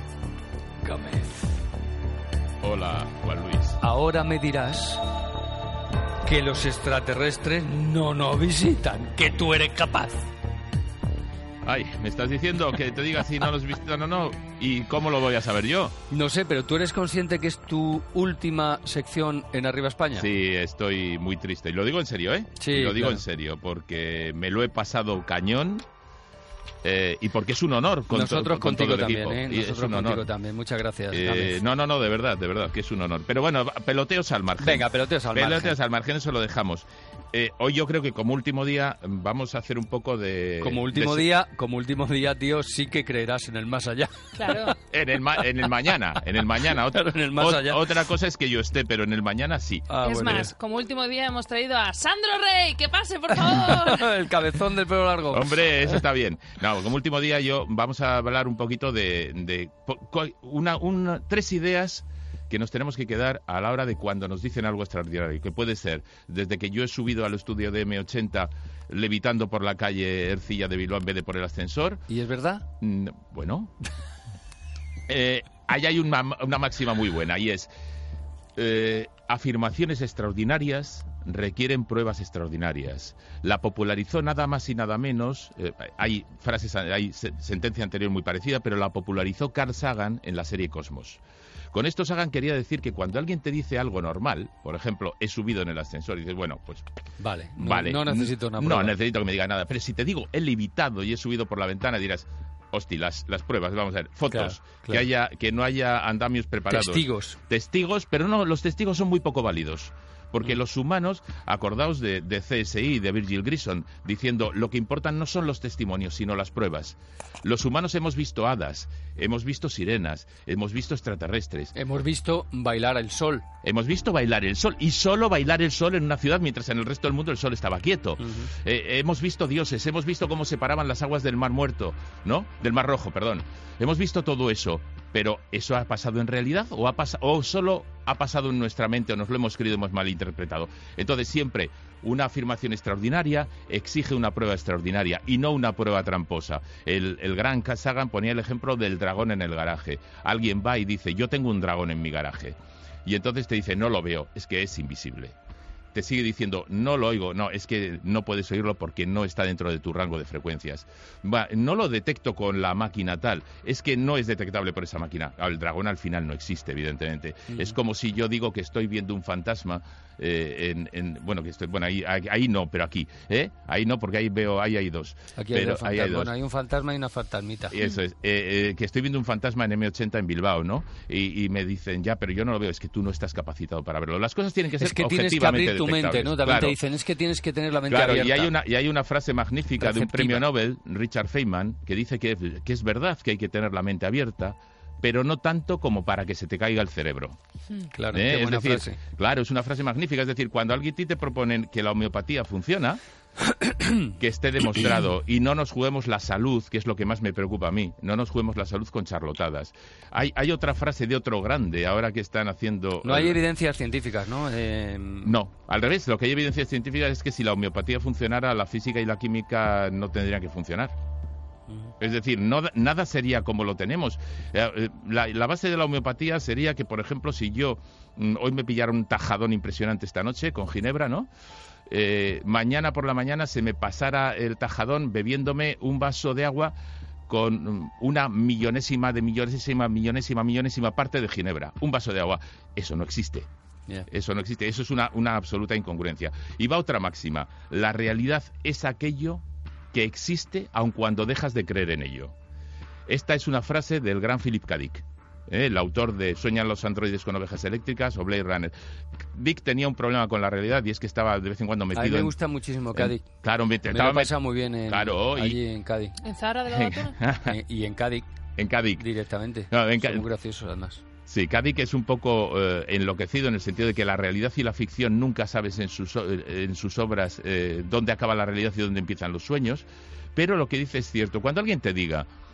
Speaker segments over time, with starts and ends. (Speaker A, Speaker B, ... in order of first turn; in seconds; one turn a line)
Speaker A: 0.8-1.5
Speaker B: 2.6-3.8
Speaker A: 3.8-5.0
Speaker A: 6.2-10.2
Speaker B: 11.6-15.9
Speaker A: 16.1-20.3
Speaker B: 20.1-25.8
Speaker A: 22.6-23.2
Speaker B: 26.8-30.2
Speaker A: 28.1-31.6
Speaker B: 31.1-41.3
Speaker A: 34.6-35.8
Speaker A: 40.6-44.8
Speaker C: 44.4-44.7
Speaker B: 44.9-49.9
Speaker A: 46.7-47.9
Speaker A: 49.9-50.5
Speaker C: 50.0-54.1
Speaker A: 53.3-56.0
Speaker B: 55.3-72.0
Speaker A: 72.1-72.7
Speaker B: 72.8-73.7
Speaker B: 75.1-77.7
Speaker B: 78.5-91.2
Speaker B: 91.7-96.8
Speaker A: 97.2-98.9
Speaker B: 97.6-121.7
Speaker A: 104.3-105.0
Speaker A: 106.7-107.4
Speaker A: 121.7-123.5
Speaker B: 123.6-155.3
Speaker A: 128.2-128.5
Speaker B: 155.9-176.3
Speaker A: 175.3-177.8
Speaker B: 177.7-186.8
Speaker A: 184.8-188.5
Speaker B: 187.9-197.4
Speaker A: 189.8-190.4
Speaker A: 197.8-199.0
Speaker B: 198.1-203.0
Speaker A: 203.4-204.1
Speaker B: 204.2-213.4
Speaker A: 213.0-215.3
Speaker B: 215.2-220.9
Speaker B: 222.0-231.3
Speaker B: 231.9-236.7
Speaker B: 237.3-243.5
Speaker B: 244.1-252.3
Speaker B: 253.1-258.7
Speaker B: 259.3-262.3
Speaker A: 261.9-263.2
Speaker B: 262.9-265.6
Speaker A: 263.9-266.2
Speaker C: 266.2-267.1
Speaker B: 266.6-267.6
Speaker A: 267.4-268.2
Speaker B: 268.6-269.0
Speaker A: 269.0-271.0
Speaker B: 269.7-270.2
Speaker B: 271.3-282.3